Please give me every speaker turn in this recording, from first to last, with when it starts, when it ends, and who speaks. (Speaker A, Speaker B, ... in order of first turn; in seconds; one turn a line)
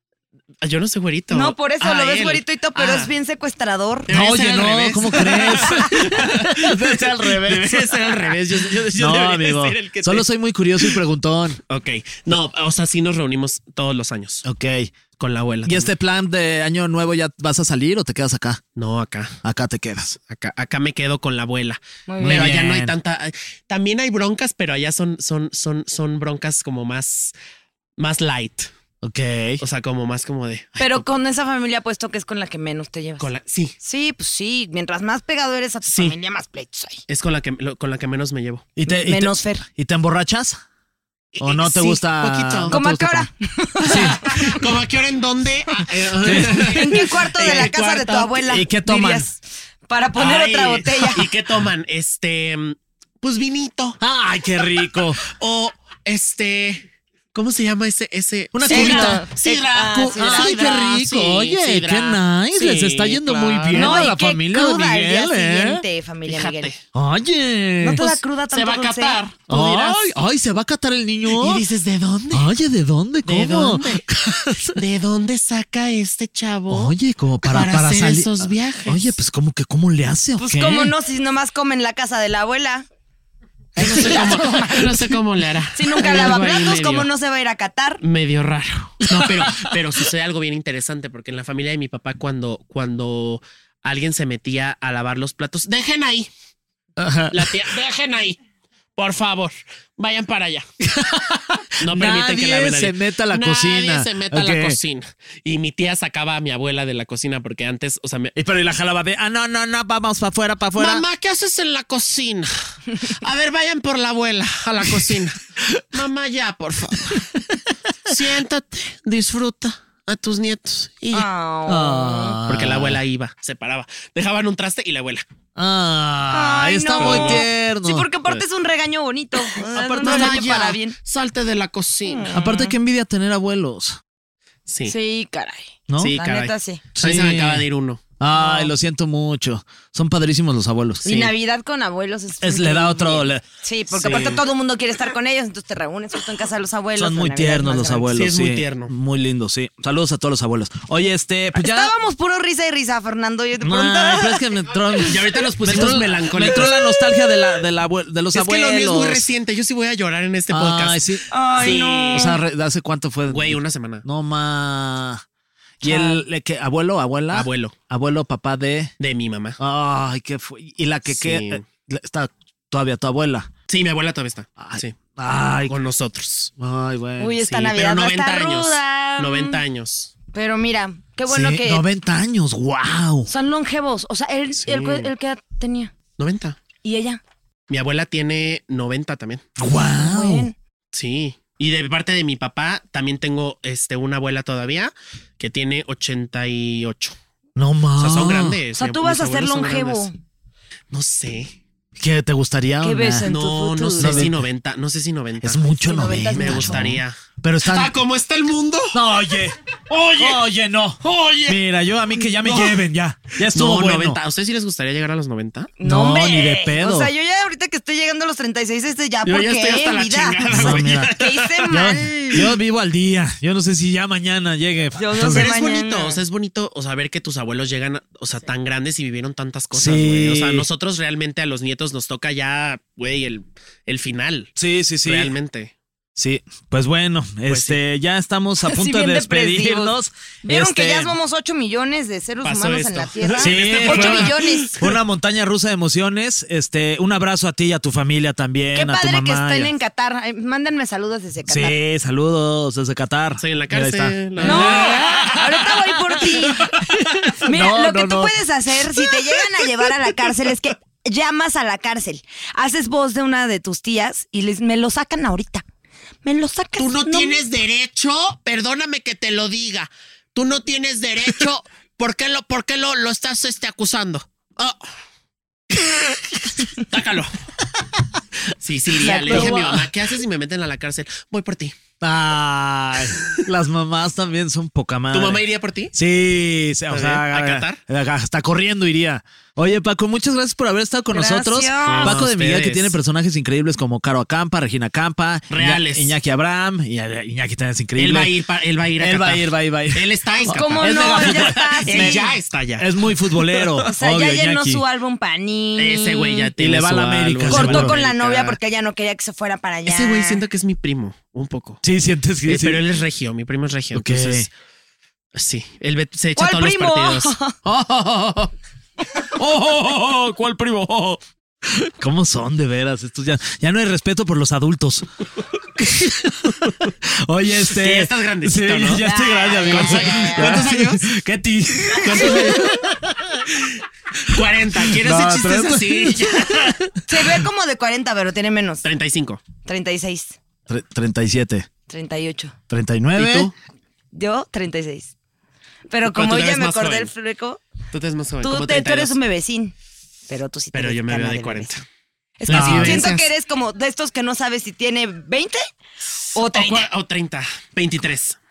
Speaker A: 0.6-3.1
Speaker B: 1.3-4.1
Speaker A: 4.1-10.3
Speaker C: 4.1-11.6
Speaker B: 5.6-6.1
Speaker A: 11.7-14.4
Speaker C: 14.4-14.9
Speaker A: 15.2-15.9
Speaker C: 15.7-18.6
Speaker A: 18.8-19.4
Speaker C: 19.4-20.2
Speaker A: 20.3-27.4
Speaker B: 22.1-22.6
Speaker C: 22.2-22.9
Speaker A: 28.0-28.7
Speaker C: 29.0-29.6
Speaker A: 29.6-31.0
Speaker B: 30.8-33.3
Speaker A: 33.2-33.8
Speaker B: 33.8-37.0
Speaker A: 35.9-36.2
Speaker A: 37.1-38.7
Speaker C: 38.8-40.6
Speaker B: 38.9-39.6
Speaker A: 41.4-42.8
Speaker C: 41.4-43.3
Speaker B: 42.7-44.6
Speaker C: 43.9-44.3
Speaker A: 43.9-48.6
Speaker C: 46.2-47.0
Speaker B: 46.3-51.3
Speaker C: 48.5-49.3
Speaker A: 50.2-54.0
Speaker C: 54.0-55.2
Speaker A: 55.2-64.1
Speaker C: 58.5-59.3
Speaker B: 58.7-60.8
Speaker C: 59.9-65.8
Speaker B: 63.7-66.7
Speaker A: 66.3-66.8
Speaker C: 66.9-68.0
Speaker B: 67.8-69.2
Speaker A: 68.0-70.1
Speaker C: 69.5-71.6
Speaker A: 71.3-72.5
Speaker C: 72.3-74.8
Speaker A: 73.2-74.0
Speaker A: 74.7-79.2
Speaker C: 76.7-80.9
Speaker B: 80.4-82.8
Speaker B: 83.8-85.1
Speaker A: 83.8-87.1
Speaker B: 85.8-88.0
Speaker A: 88.0-96.3
Speaker C: 97.0-97.6
Speaker A: 97.3-98.4
Speaker A: 99.0-100.7
Speaker C: 100.8-104.8
Speaker A: 101.8-108.3
Speaker C: 108.3-111.0
Speaker A: 110.8-115.4
Speaker A: 115.9-117.2
Speaker C: 117.0-118.2
Speaker A: 118.1-121.3
Speaker B: 121.1-122.4
Speaker C: 121.7-123.0
Speaker A: 122.5-125.2
Speaker C: 125.6-128.1
Speaker B: 126.3-131.0
Speaker A: 127.0-127.5
Speaker A: 129.8-132.3
Speaker C: 129.8-130.4
Speaker B: 132.1-132.7
Speaker C: 132.3-134.0
Speaker A: 134.7-134.9
Speaker B: 134.8-136.8
Speaker C: 135.9-136.2
Speaker A: 136.0-138.0
Speaker C: 137.0-137.7
Speaker C: 138.2-141.3
Speaker B: 138.3-138.7
Speaker B: 141.0-148.1
Speaker C: 142.4-144.4
Speaker C: 147.0-151.9
Speaker A: 148.1-148.9
Speaker B: 151.6-154.4
Speaker C: 153.6-159.2
Speaker A: 155.0-156.8
Speaker B: 156.4-157.2
Speaker A: 158.3-162.3
Speaker C: 160.5-165.2
Speaker B: 161.3-162.4
Speaker A: 163.3-164.1
Speaker C: 165.8-168.9
Speaker B: 165.8-166.2
Speaker A: 167.3-167.8
Speaker A: 169.0-169.6
Speaker C: 169.6-173.5
Speaker A: 171.1-171.6
Speaker A: 173.7-175.0
Speaker C: 174.6-175.8
Speaker A: 175.7-176.5
Speaker C: 176.6-177.4
Speaker B: 177.2-179.6
Speaker A: 177.4-180.1
Speaker B: 180.3-181.8
Speaker C: 181.3-183.3
Speaker B: 183.3-185.9
Speaker A: 184.5-185.1
Speaker A: 186.2-186.6
Speaker B: 186.8-187.2
Speaker A: 187.7-189.4
Speaker C: 189.6-190.5
Speaker B: 190.0-190.6
Speaker A: 190.9-197.2
Speaker C: 197.6-198.6
Speaker A: 198.0-200.1
Speaker B: 198.8-200.1
Speaker A: 200.9-201.6
Speaker C: 202.0-203.3
Speaker B: 202.8-204.3
Speaker A: 203.2-205.7
Speaker C: 204.0-204.3
Speaker C: 205.4-207.9
Speaker B: 205.8-206.9
Speaker A: 206.3-209.0
Speaker C: 208.9-214.2
Speaker A: 209.9-210.4
Speaker A: 211.0-211.6
Speaker A: 212.4-212.8
Speaker A: 213.5-215.8
Speaker B: 215.8-222.5
Speaker C: 215.8-217.1
Speaker A: 219.2-221.7
Speaker C: 220.5-225.5
Speaker B: 224.9-226.2
Speaker A: 225.3-234.5
Speaker C: 229.7-230.7
Speaker C: 234.6-235.3
Speaker A: 235.0-235.7
Speaker C: 236.2-241.1
Speaker A: 237.5-237.8
Speaker B: 238.6-244.8
Speaker A: 242.4-245.0
Speaker C: 243.3-249.7
Speaker B: 248.8-251.8
Speaker C: 251.5-260.3
Speaker A: 253.4-255.3
Speaker B: 254.4-256.7
Speaker B: 257.4-265.6
Speaker B: 266.2-267.4
Speaker A: 266.8-274.8
Speaker A: 276.7-277.3
Speaker A: 278.6-281.8
Speaker B: 279.0-279.8
Speaker C: 279.2-279.7
Speaker C: 282.0-285.4
Speaker A: 285.1-285.9
Speaker C: 285.9-298.3
Speaker A: 286.9-287.8
Speaker B: 291.1-292.2
Speaker A: 291.9-293.0
Speaker A: 295.5-296.1
Speaker A: 298.0-303.9
Speaker C: 299.0-304.8
Speaker B: 300.5-302.3
Speaker B: 303.9-306.5
Speaker A: 305.8-308.6
Speaker C: 306.6-308.0
Speaker B: 307.5-310.4
Speaker A: 309.9-311.8
Speaker C: 311.8-312.8
Speaker A: 312.5-314.5
Speaker C: 313.9-314.5
Speaker A: 315.4-318.5
Speaker B: 316.4-317.6
Speaker A: 319.1-321.2
Speaker C: 321.7-325.1
Speaker C: 325.7-333.4
Speaker A: 327.7-329.1
Speaker B: 329.0-330.7
Speaker A: 329.6-331.1
Speaker A: 332.0-332.9
Speaker A: 333.5-336.8
Speaker C: 334.8-337.0
Speaker B: 337.1-338.8
Speaker A: 338.8-339.4
Speaker B: 339.6-340.4
Speaker C: 340.7-341.7
Speaker B: 341.9-342.6
Speaker C: 342.7-343.5
Speaker A: 343.1-343.5
Speaker B: 344.1-345.1
Speaker B: 345.9-347.6
Speaker A: 346.1-347.1
Speaker A: 347.9-349.2
Speaker B: 348.4-349.7
Speaker B: 350.3-351.7
Speaker A: 350.7-351.8
Speaker B: 352.4-355.6
Speaker A: 352.5-353.3
Speaker C: 352.5-353.1
Speaker A: 356.2-358.4
Speaker B: 356.4-356.9